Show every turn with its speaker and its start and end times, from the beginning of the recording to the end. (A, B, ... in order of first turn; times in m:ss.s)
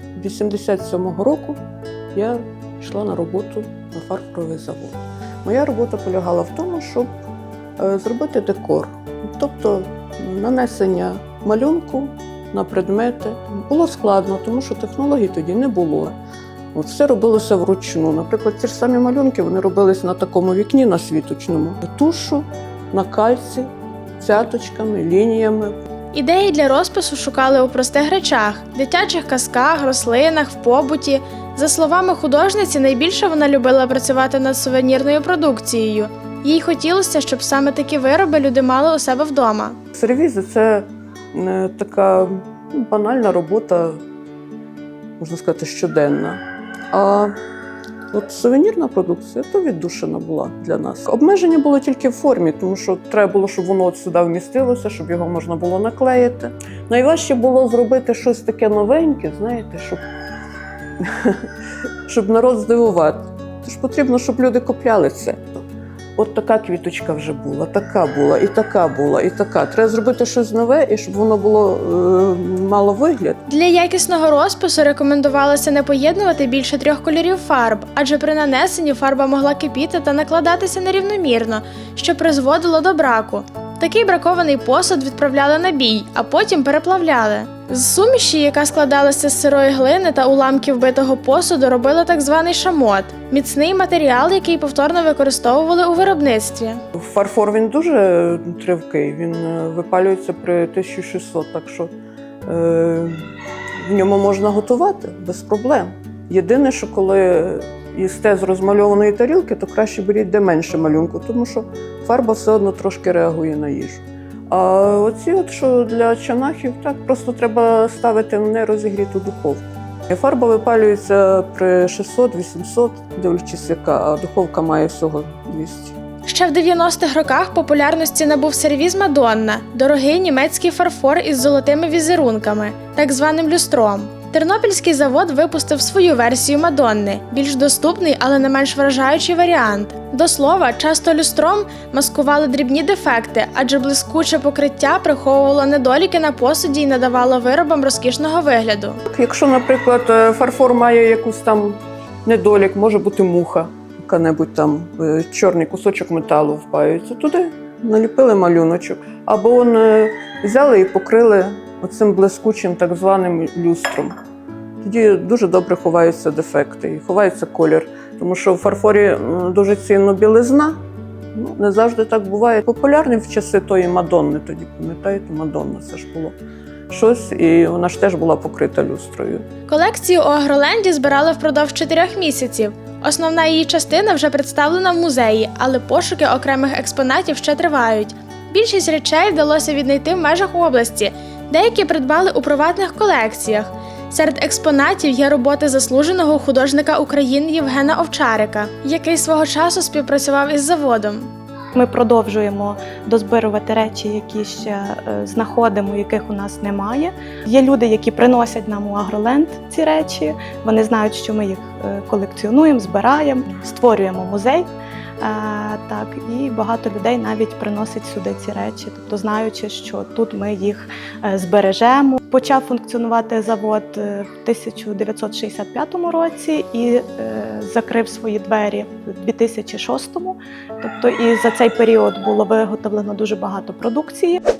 0:00.2-0:01.6 A
0:02.1-0:07.1 A
0:07.8-0:16.1 A
0:16.7-0:25.8 A
0:26.1-0:39.8 B
0:39.9-0:44.0 A
0:45.2-0:47.3 A
0:48.1-1:00.0 A
1:01.0-1:01.4 A
1:02.0-1:05.4 A
1:06.2-1:13.4 A
1:13.5-1:36.8 B
1:36.9-1:41.9 A
1:42.4-1:43.2 A
1:43.8-2:06.0 A
2:06.2-2:29.0 B
2:29.0-2:44.1 A
2:44.8-2:50.8 A
2:51.3-2:56.4 A
2:56.9-2:59.4 A
2:59.7-3:21.3 B
3:21.7-3:34.6 C
3:35.2-3:54.4 C